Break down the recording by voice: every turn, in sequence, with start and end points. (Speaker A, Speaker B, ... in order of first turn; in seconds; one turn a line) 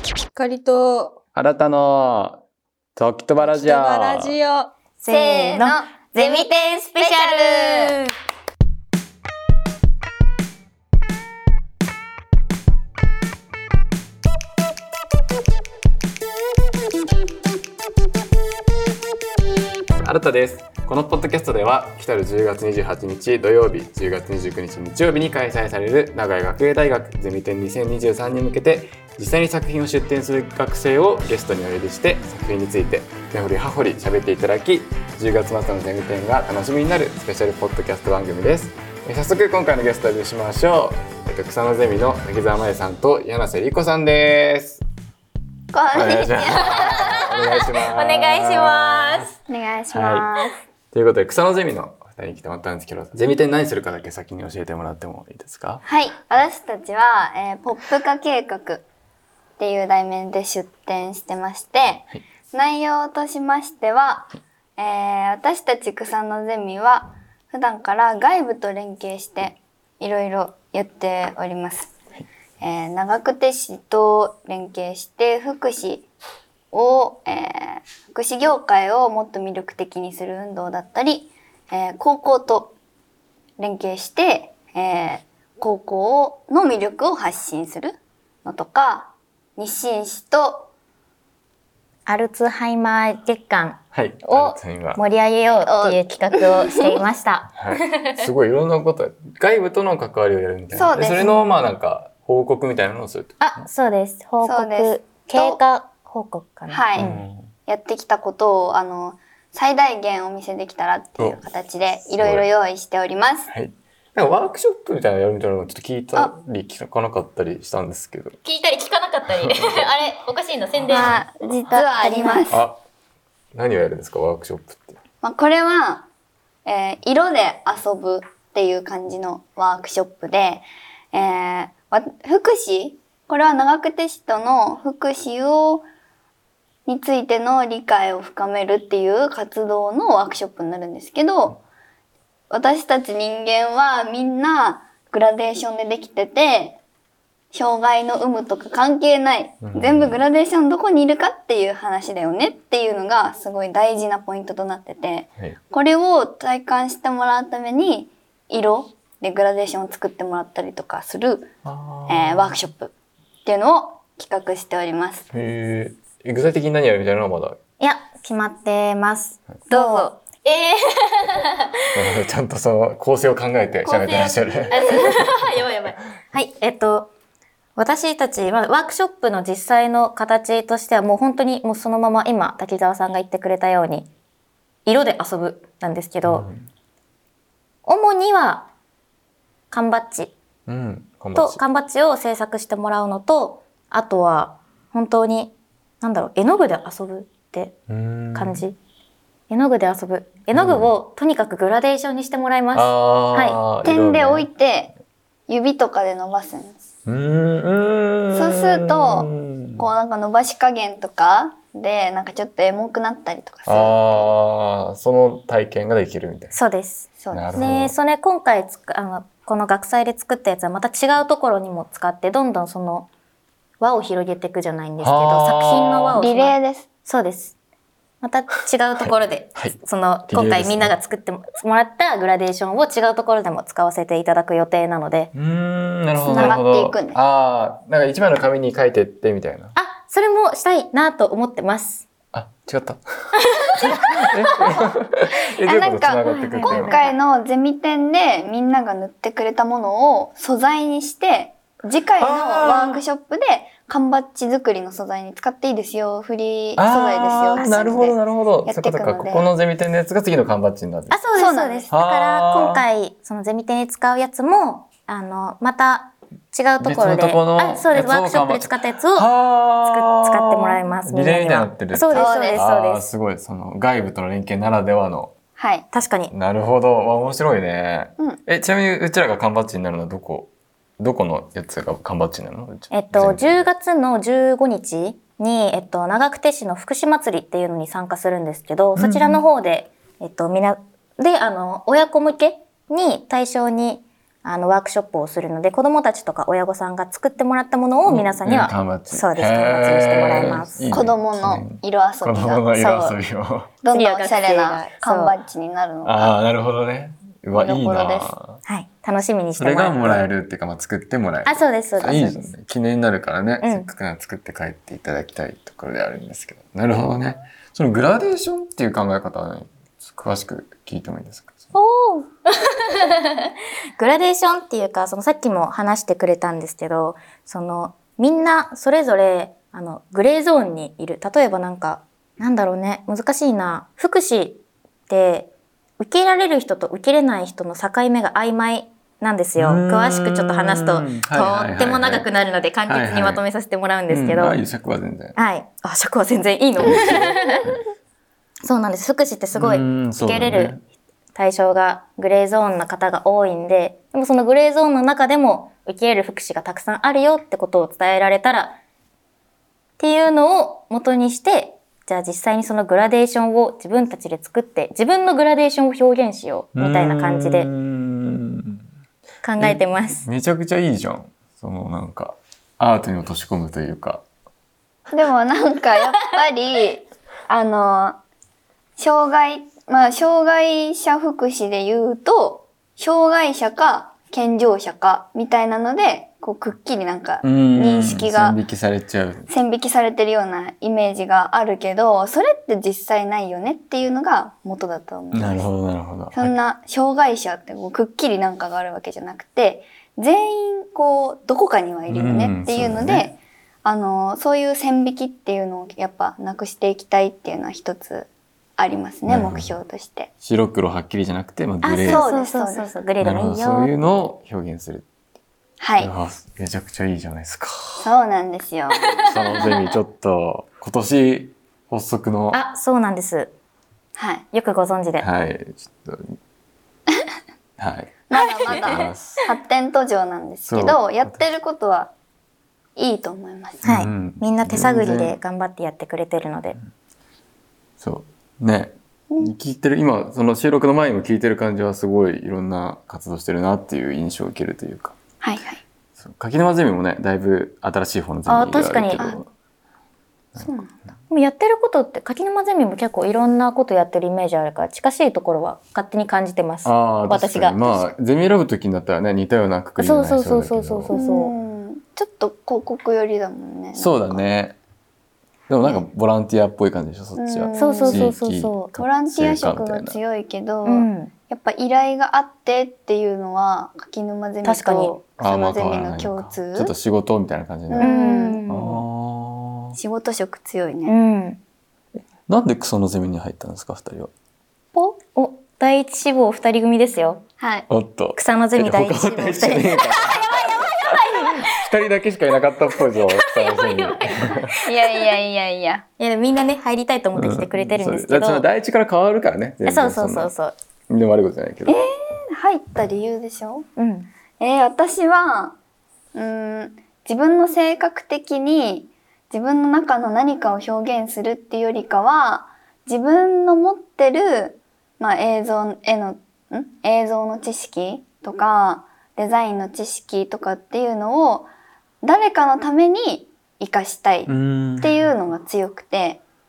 Speaker A: 0.3-1.1
Speaker B: 1.3-2.4
Speaker B: 3.0-4.4
Speaker A: 3.4-4.7
Speaker C: 5.0-8.1
Speaker D: 5.1-7.9
Speaker B: 20.0-44.8
Speaker D: 45.7-47.3
Speaker B: 45.9-49.3
Speaker C: 46.7-49.4
Speaker D: 49.5-50.6
Speaker B: 49.9-50.3
Speaker B: 50.9-55.8
Speaker D: 55.9-58.8
Speaker D: 59.6-71.9
Speaker D: 72.6-76.1
Speaker D: 76.7-82.7
Speaker D: 83.6-90.7
Speaker C: 92.0-98.2
Speaker B: 93.9-95.0
Speaker D: 95.6-97.0
Speaker B: 97.6-103.4
Speaker D: 100.7-101.3
Speaker C: 103.4-107.2
Speaker D: 104.4-105.6
Speaker D: 106.7-107.1
Speaker B: 107.0-107.5
Speaker D: 107.7-113.5
Speaker B: 112.0-112.5
Speaker B: 113.5-118.4
Speaker C: 118.4-122.5
Speaker B: 119.3-119.9
Speaker D: 120.9-122.6
Speaker B: 122.5-122.8
Speaker B: 123.5-125.0
Speaker D: 125.2-126.1
Speaker D: 126.7-135.8
Speaker D: 136.8-141.6
Speaker D: 142.5-146.8
Speaker D: 147.5-161.5
Speaker B: 149.6-150.2
Speaker B: 161.6-162.6
Speaker D: 162.1-162.9
Speaker D: 163.4-165.3
Speaker B: 165.3-167.6
Speaker C: 167.8-171.7
Speaker D: 169.7-170.2
Speaker B: 171.9-175.3
Speaker C: 173.8-177.1
Speaker C: 177.8-184.1
Speaker C: 184.8-186.4
Speaker B: 186.2-186.7
Speaker C: 187.8-188.7
Speaker C: 189.7-190.3
Speaker B: 190.7-191.6
Speaker C: 191.3-197.8
Speaker B: 197.9-198.6
Speaker C: 198.3-198.8
Speaker C: 199.5-203.6
Speaker B: 200.5-200.9
Speaker B: 202.7-204.5
Speaker D: 203.8-204.9
Speaker D: 205.5-206.8
Speaker B: 207.1-209.9
Speaker D: 208.3-214.3
Speaker B: 213.7-216.5
Speaker C: 216.5-223.1
Speaker D: 217.2-217.6
Speaker B: 217.3-217.9
Speaker C: 223.8-226.5
Speaker B: 225.0-226.2
Speaker D: 226.2-226.9
Speaker C: 227.0-227.5
Speaker C: 228.2-235.3
Speaker B: 229.0-229.8
Speaker B: 230.3-230.9
Speaker B: 235.3-239.7
Speaker D: 236.2-237.2
Speaker C: 236.3-236.6
Speaker C: 239.7-242.0
Speaker B: 242.3-243.0
Speaker C: 243.4-244.8
Speaker B: 243.7-247.0
Speaker D: 245.6-259.5
Speaker C: 246.2-247.1
Speaker B: 252.2-253.0
Speaker B: 256.8-261.2
Speaker C: 257.6-257.9
Speaker C: 261.1-269.3
Speaker D: 261.3-261.9
Speaker B: 261.9-262.8
Speaker B: 266.8-275.3
Speaker C: 269.8-273.1
Speaker D: 272.1-272.6
Speaker D: 275.6-275.9
Speaker C: 275.9-276.3
Speaker B: 276.3-283.7
Speaker C: 282.9-300.9
Speaker B: 288.9-289.4
Speaker B: 298.1-303.8
Speaker D: 300.9-302.7
Speaker C: 302.7-303.2
Speaker D: 303.8-306.4
Speaker C: 303.9-305.3
Speaker B: 306.0-308.6
Speaker D: 307.5-308.3
Speaker C: 308.6-310.2
Speaker B: 309.6-321.7
Speaker C: 311.4-312.5
Speaker C: 313.6-313.9
Speaker C: 321.7-344.6
Speaker B: 339.6-342.3
Speaker B: 342.9-343.4
Speaker B: 344.1-345.4
Speaker C: 345.4-347.6
Speaker B: 346.8-347.7
Speaker C: 348.6-350.7
Speaker B: 349.5-350.8
Speaker C: 351.3-358.8
Speaker C: 360.0-367.7
Speaker B: 366.8-368.8
Speaker C: 369.4-370.2
Speaker B: 369.6-374.2
Speaker D: 375.1-378.2
Speaker D: 379.0-388.6
Speaker B: 387.4-389.5
Speaker D: 389.5-395.7
Speaker B: 395.3-396.5
Speaker D: 396.3-410.3
Speaker B: 402.1-403.3
Speaker B: 409.2-409.7
Speaker B: 410.4-412.3
Speaker C: 411.8-413.9
Speaker D: 412.1-413.1
Speaker B: 413.2-415.1
Speaker D: 415.8-416.1
Speaker B: 416.0-418.1
Speaker D: 418.0-419.0
Speaker C: 419.0-419.8
Speaker B: 419.2-422.6
Speaker C: 422.5-423.5
Speaker D: 424.1-424.4
Speaker C: 424.5-425.2
Speaker B: 425.2-426.4
Speaker B: 427.8-429.4
Speaker D: 428.3-432.1
Speaker C: 428.6-429.1
Speaker B: 430.6-431.4
Speaker D: 432.9-433.9
Speaker B: 433.8-435.4
Speaker C: 433.8-436.8
Speaker B: 438.0-445.1
Speaker D: 445.4-445.8
Speaker B: 446.2-449.5
Speaker C: 448.4-449.3
Speaker D: 450.6-451.0
Speaker C: 451.3-458.1
Speaker B: 456.8-461.1
Speaker C: 460.0-461.5
Speaker D: 461.1-464.4
Speaker B: 463.9-464.8
Speaker B: 465.7-470.2
Speaker D: 465.8-466.1
Speaker D: 467.4-468.2
Speaker C: 467.7-468.9
Speaker D: 468.9-476.9
Speaker C: 470.8-471.3
Speaker C: 474.6-475.2
Speaker B: 475.4-478.1
Speaker D: 477.9-478.6
Speaker C: 478.0-479.0
Speaker B: 478.7-480.0
Speaker D: 479.9-481.1
Speaker C: 481.1-481.6
Speaker B: 482.5-484.3
Speaker C: 484.9-487.4
Speaker D: 487.6-487.9
Speaker B: 487.9-494.6
Speaker C: 488.3-491.7
Speaker C: 493.0-495.2
Speaker D: 494.8-496.0
Speaker C: 496.2-498.6
Speaker B: 497.3-500.5
Speaker C: 499.8-500.7
Speaker B: 501.1-501.9
Speaker D: 501.9-503.9
Speaker C: 504.0-504.3
Speaker D: 504.6-505.8
Speaker D: 506.3-521.7
Speaker D: 522.2-526.4
Speaker B: 524.5-525.1